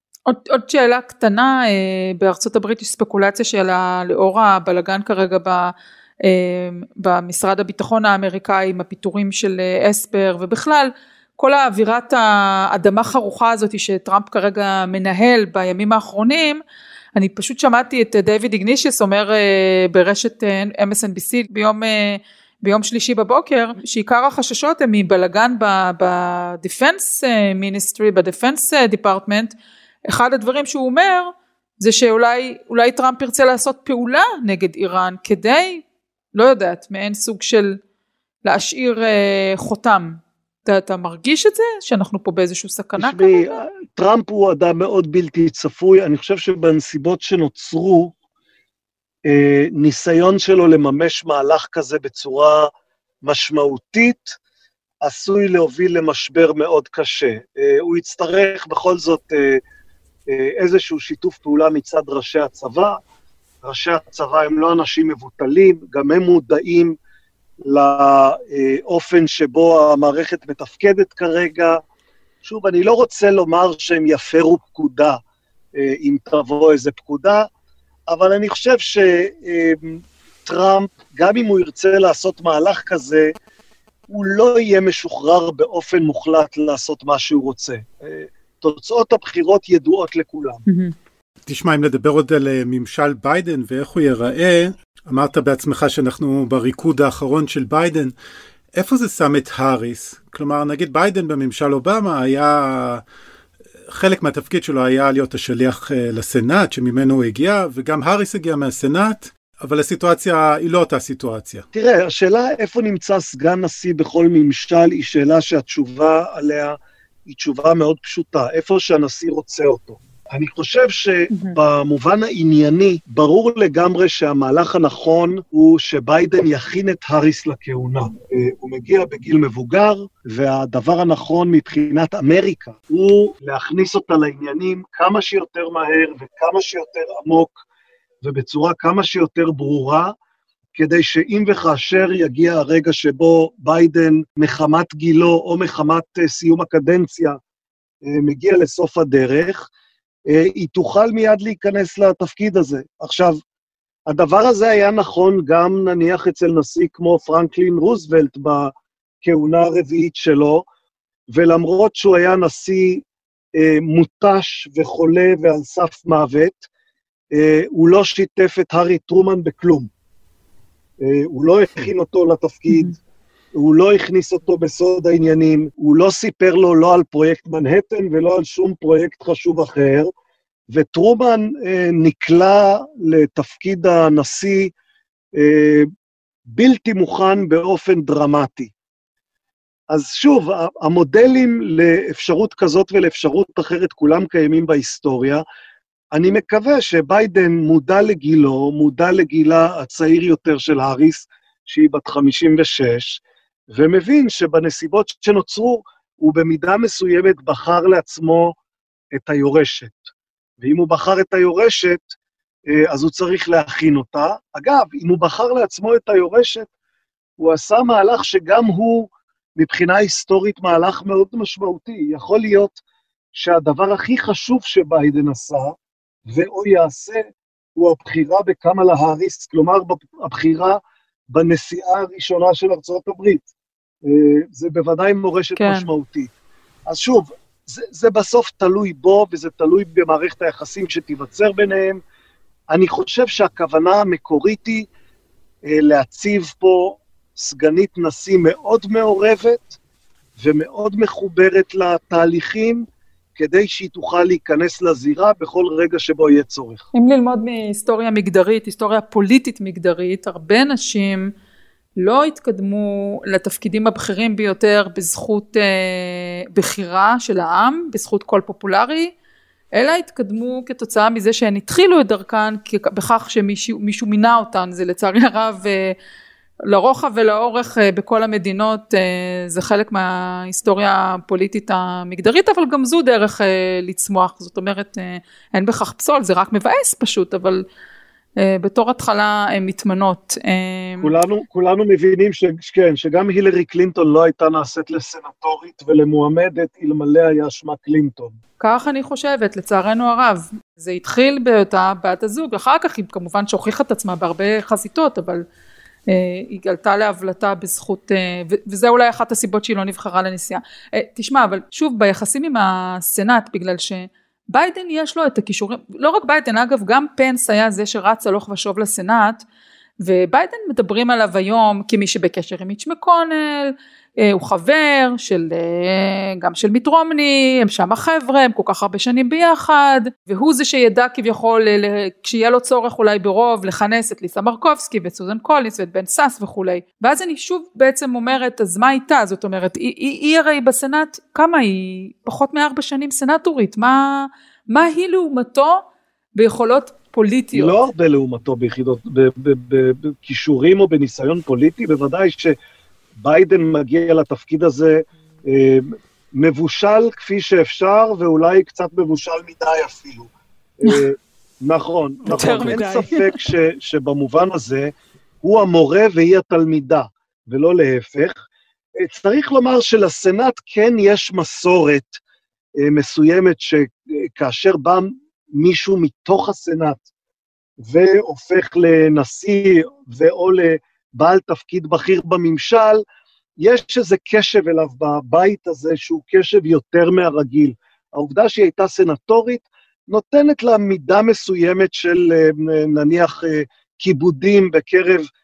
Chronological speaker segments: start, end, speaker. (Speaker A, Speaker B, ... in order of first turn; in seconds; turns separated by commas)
Speaker A: 0.3-5.7, Speaker A: 6.2-16.6, Speaker A: 17.2-29.5, Speaker A: 30.1-35.8, Speaker A: 36.4-37.7, Speaker A: 38.5-43.6, Speaker B: 43.0-48.1, Speaker B: 49.3-52.7, Speaker B: 53.2-54.4, Speaker B: 55.0-59.6, Speaker B: 60.3-63.0, Speaker B: 63.6-67.0, Speaker B: 67.6-71.8, Speaker B: 72.4-75.2, Speaker B: 75.8-77.5, Speaker B: 78.1-83.3, Speaker B: 84.1-90.6, Speaker A: 90.7-90.9, Speaker C: 91.5-98.1, Speaker C: 98.8-103.0, Speaker C: 103.9-111.7, Speaker B: 111.7-137.6, Speaker A: 121.3-121.6, Speaker B: 138.2-140.2, Speaker B: 140.8-147.4, Speaker B: 148.1-149.7, Speaker B: 150.3-153.4, Speaker B: 154.1-160.7, Speaker B: 161.3-163.0, Speaker B: 163.6-166.7, Speaker B: 167.3-169.9, Speaker B: 171.0-172.9, Speaker A: 172.7-172.9, Speaker B: 173.5-180.1, Speaker B: 180.7-184.7, Speaker B: 185.4-185.9, Speaker B: 186.5-188.7, Speaker B: 189.9-195.4, Speaker B: 196.1-208.6, Speaker B: 209.2-212.1, Speaker B: 212.7-216.7, Speaker B: 217.4-222.8, Speaker B: 223.3-225.7, Speaker B: 226.3-227.2, Speaker B: 227.8-233.5, Speaker B: 234.1-236.3, Speaker A: 235.6-235.9, Speaker B: 236.9-242.0, Speaker B: 242.7-244.9, Speaker B: 245.7-249.8, Speaker B: 250.4-256.9, Speaker A: 256.9-261.3, Speaker A: 262.0-269.1, Speaker A: 269.8-275.9, Speaker A: 276.7-287.6, Speaker A: 288.4-291.1, Speaker B: 291.0-298.4, Speaker A: 298.6-305.4, Speaker A: 306.1-319.4, Speaker A: 320.0-345.8, Speaker A: 346.4-347.8, Speaker B: 347.5-352.6, Speaker B: 353.2-360.3, Speaker B: 360.8-368.4, Speaker A: 362.3-363.4, Speaker C: 362.3-362.8, Speaker B: 369.0-372.2, Speaker B: 372.8-377.1, Speaker B: 377.8-383.0, Speaker B: 383.6-395.3